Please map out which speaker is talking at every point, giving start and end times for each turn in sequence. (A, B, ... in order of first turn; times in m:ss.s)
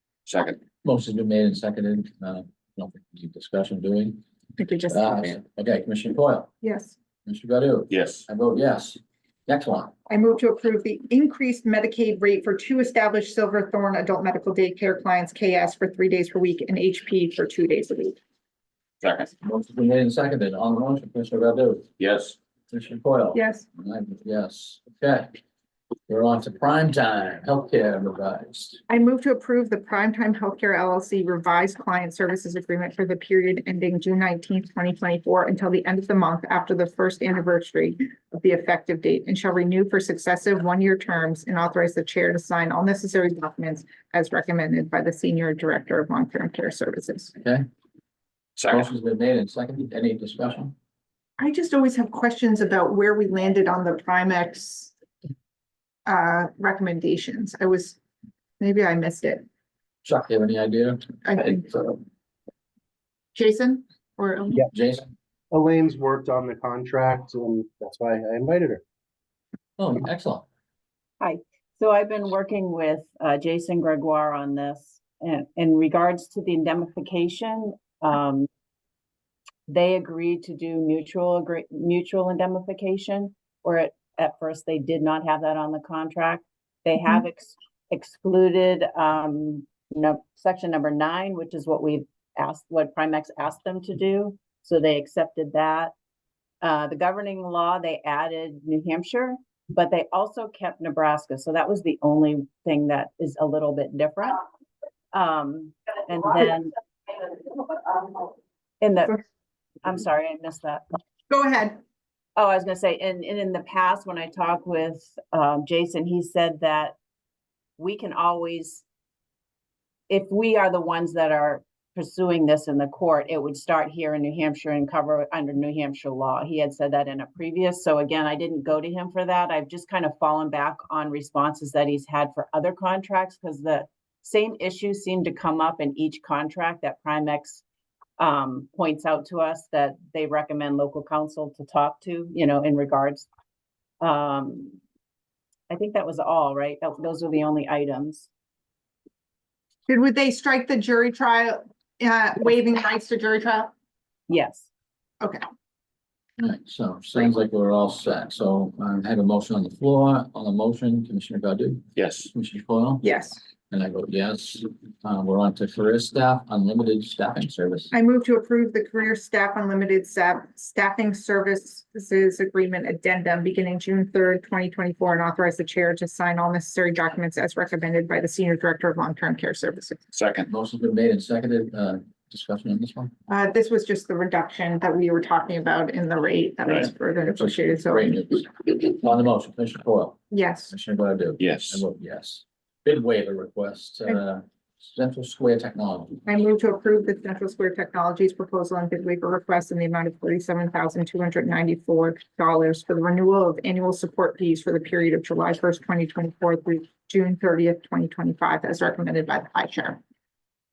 0:00.3-0:00.6 A
0:00.8-0:04.2 B
0:04.6-0:05.4 C
0:04.9-0:06.5 B
0:06.6-0:06.9 C
0:07.2-0:09.9 B
0:07.9-0:08.2 A
0:10.1-0:18.2 C
0:19.0-0:19.3 A
0:19.4-0:21.9 B
0:22.0-0:22.3 A
0:22.7-0:25.4 B
0:23.3-0:23.6 C
0:26.1-0:28.8 B
0:28.9-0:47.3 C
0:48.6-0:48.8 A
0:48.6-0:50.7 B
0:51.4-0:54.9 C
0:56.0-0:58.0 C
0:58.6-0:59.4 C
1:00.0-1:02.0 B
1:01.2-1:01.6 C
1:03.3-1:04.7 C
1:04.7-1:05.1 B
1:05.5-1:08.8 D
1:09.8-1:10.4 B
1:11.2-1:18.5 E
1:19.7-1:35.9 E
1:36.6-1:44.4 E
1:45.1-1:46.7 E
1:48.8-1:49.2 E
1:49.8-1:50.8 E
1:51.3-1:51.8 C
1:52.4-1:57.0 E
1:57.8-1:58.8 E
2:00.1-2:17.6 E
2:18.2-2:23.3 E
2:24.0-2:24.8 E
2:25.7-2:28.3 E
2:29.9-2:33.7 C
2:34.3-2:34.7 E
2:36.4-2:43.0 B
2:42.0-2:42.3 A
2:43.0-2:43.4 C
2:43.7-2:47.9 B
2:47.9-3:00.0 C
3:00.1-3:00.4 A
3:00.4-3:03.1 B
3:03.3-3:08.1 C
3:07.4-3:16.2 B
3:10.3-3:10.7 C
3:11.4-3:11.8 A
3:16.2-3:30.0 C